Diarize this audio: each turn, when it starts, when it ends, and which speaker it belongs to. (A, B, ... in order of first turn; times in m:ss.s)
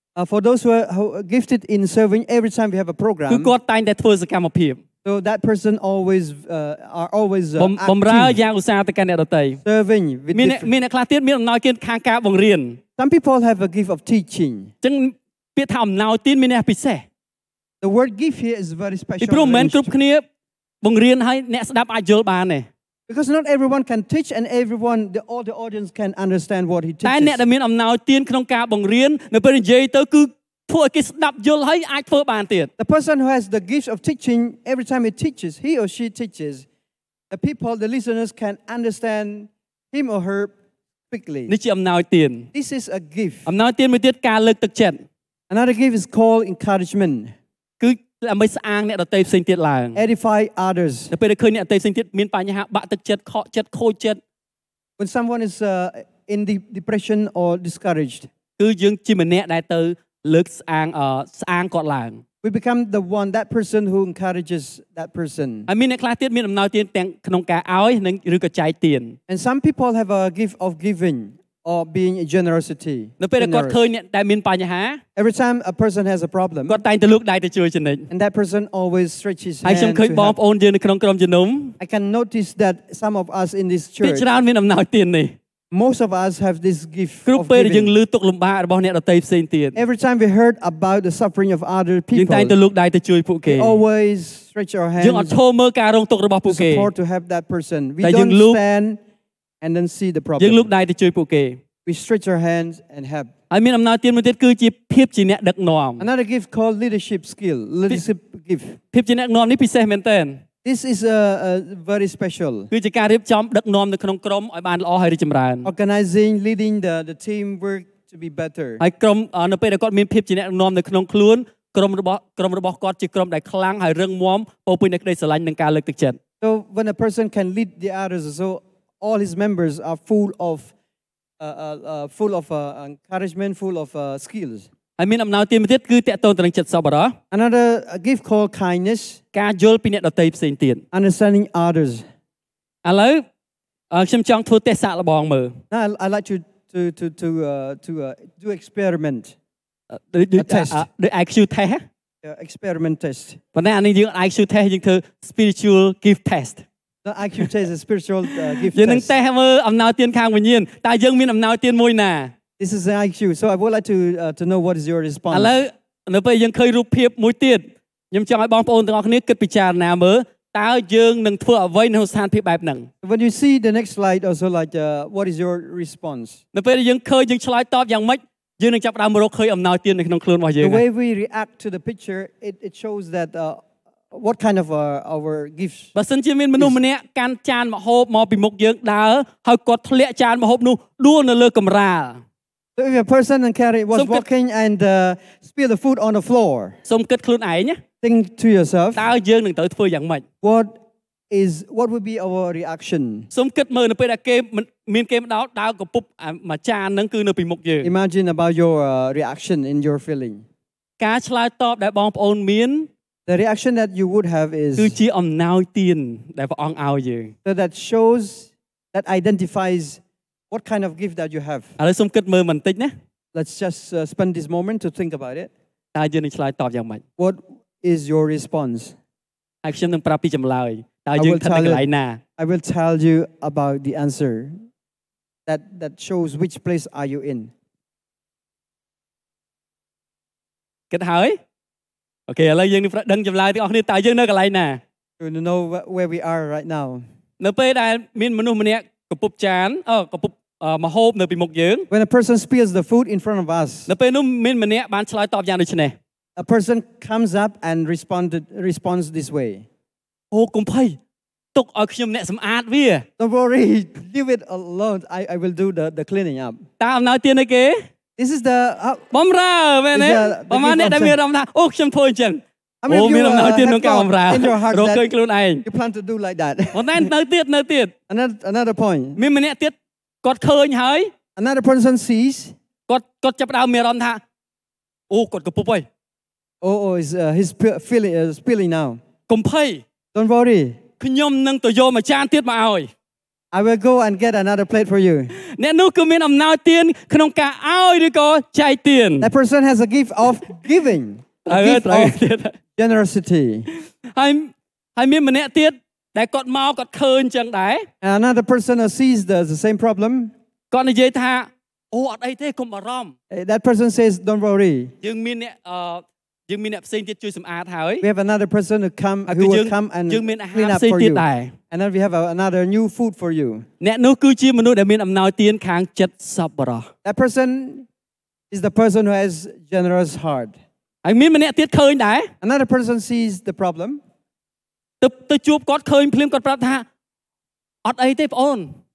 0:00.2-0:03.5 A
0:03.3-0:04.8 B
0:05.0-0:08.4 A
0:07.6-0:09.6 B
0:09.6-0:10.7 A
0:10.3-0:12.8 B
0:13.0-0:14.7 A
0:14.8-0:17.0 B
0:17.8-0:19.9 A
0:19.2-0:20.2 B
0:20.8-0:22.7 B
0:23.1-0:27.4 A
0:27.0-0:32.7 B
0:32.8-0:36.7 A
0:37.3-0:40.5 A
0:41.1-0:41.5 A
0:41.5-0:42.5 B
0:42.5-0:43.5 A
0:43.5-0:45.0 B
0:45.5-0:47.4 A
0:47.8-0:50.0 B
0:50.0-0:51.1 A
0:51.1-0:54.2 B
0:55.0-0:58.3 A
0:58.6-1:02.2 B
1:02.4-1:05.7 A
1:05.7-1:09.2 B
1:09.3-1:13.8 A
1:13.2-1:15.0 B
1:15.2-1:16.8 A
1:16.7-1:18.1 B
1:18.1-1:20.4 A
1:19.6-1:21.8 B
1:21.8-1:24.3 A
1:24.0-1:25.4 B
1:25.7-1:28.0 A
1:27.3-1:29.8 B
1:29.8-1:32.6 A
1:32.1-1:33.8 B
1:33.5-1:35.4 A
1:35.0-1:36.9 B
1:36.5-1:39.0 A
1:38.0-1:38.6 B
1:39.6-1:40.7 A
1:40.4-1:41.6 B
1:41.9-1:43.3 A
1:43.5-1:46.0 B
1:46.0-1:48.8 A
1:48.9-1:50.4 B
1:50.6-1:52.7 A
1:52.7-1:55.7 B
1:55.6-1:58.8 A
1:58.8-2:06.2 B
2:06.4-2:10.7 A
2:11.4-2:14.7 A
2:15.0-2:17.2 B
2:17.3-2:19.2 A
2:19.3-2:20.8 B
2:20.9-2:22.0 A
2:22.8-2:23.2 B
2:23.9-2:25.6 B
2:25.7-2:29.4 A
2:29.9-2:31.8 B
2:30.4-2:30.8 A
2:32.2-2:33.4 A
2:33.6-2:36.6 B
2:37.0-2:39.1 A
2:38.3-2:42.3 B
2:42.6-2:45.6 A
2:45.3-2:52.9 B
2:53.0-2:56.4 A
2:56.5-3:00.8 B
3:00.6-3:05.9 A
3:06.0-3:12.2 B
3:12.8-3:16.8 A
3:13.9-3:14.2 B
3:16.9-3:17.8 B
3:18.0-3:19.1 A
3:19.0-3:20.2 B
3:20.4-3:20.7 A
3:21.3-3:23.3 A
3:23.3-3:27.9 B
3:27.8-3:30.4 A
3:31.0-3:32.9 B
3:33.3-3:35.0 A
3:34.8-3:37.3 B
3:37.4-3:41.8 A
3:41.8-3:42.9 B
3:43.3-3:45.5 A
3:45.9-3:47.0 B
3:47.2-3:49.0 A
3:49.6-3:52.2 B
3:51.2-3:51.9 A
3:52.4-3:54.6 A
3:55.5-3:57.5 A
4:00.9-4:01.4 B
4:02.3-4:04.8 B
4:05.2-4:07.0 A
4:07.4-4:11.9 B
4:11.9-4:13.9 A
4:13.9-4:16.0 B
4:16.4-4:19.6 A
4:20.3-4:21.0 B
4:21.6-4:23.1 B
4:23.2-4:26.6 A
4:26.8-4:27.8 B
4:28.2-4:29.0 A
4:29.1-4:35.6 B
4:29.9-4:31.2 A
4:32.8-4:35.1 A
4:35.6-4:37.1 A
4:36.7-4:37.9 B
4:38.1-4:39.2 A
4:39.2-4:41.1 B
4:41.4-4:42.6 A
4:42.9-4:44.2 B
4:45.1-4:45.9 B
4:46.6-4:49.0 A
4:49.3-4:49.8 B
4:50.1-4:50.8 A
4:51.0-4:52.9 B
4:53.5-4:55.3 A
4:55.3-4:59.3 B
4:59.2-5:02.2 A
5:01.4-5:02.6 B
5:02.8-5:03.7 A
5:03.7-5:07.9 B
5:08.0-5:10.3 A
5:10.7-5:13.1 B
5:13.3-5:14.9 A
5:15.0-5:18.1 B
5:18.0-5:23.7 A
5:19.3-5:21.5 B
5:23.8-5:26.9 B
5:27.0-5:27.9 A
5:28.5-5:30.6 A
5:31.0-5:32.3 B
5:32.4-5:34.0 A
5:35.0-5:36.9 B
5:37.8-5:38.7 B